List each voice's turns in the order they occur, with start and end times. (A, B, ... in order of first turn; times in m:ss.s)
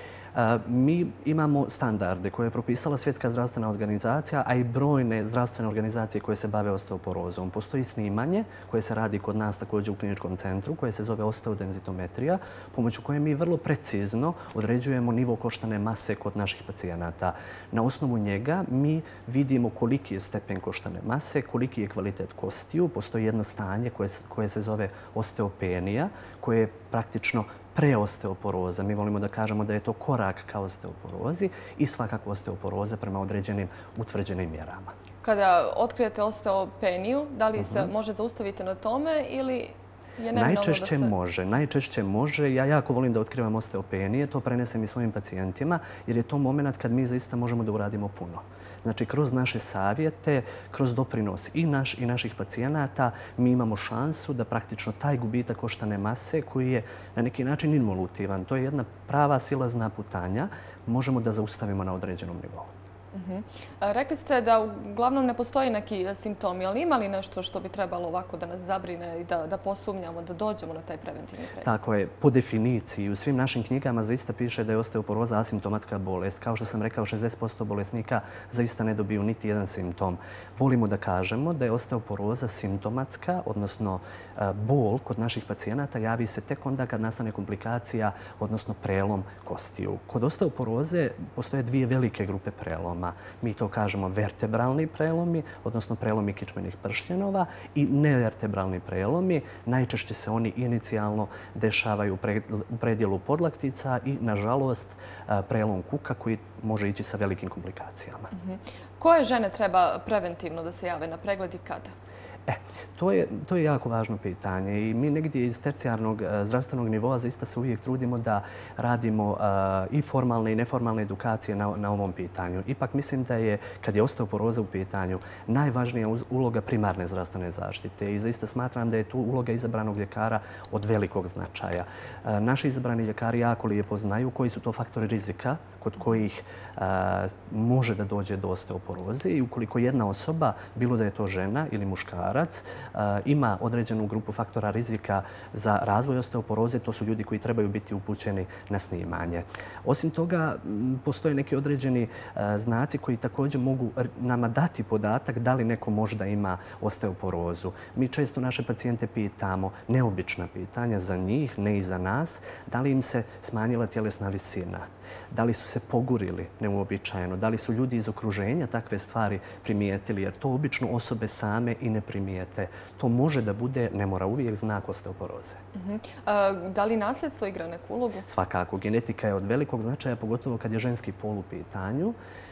0:00.3-0:34.9 A
0:35.2-0:41.1 B
0:37.6-0:37.9 A
0:40.3-1:02.7 A
1:03.1-1:11.8 B
1:11.6-1:48.3 A
1:48.3-1:51.9 B
1:52.5-2:55.6 A
2:55.8-2:58.3 B
2:58.3-3:02.2 A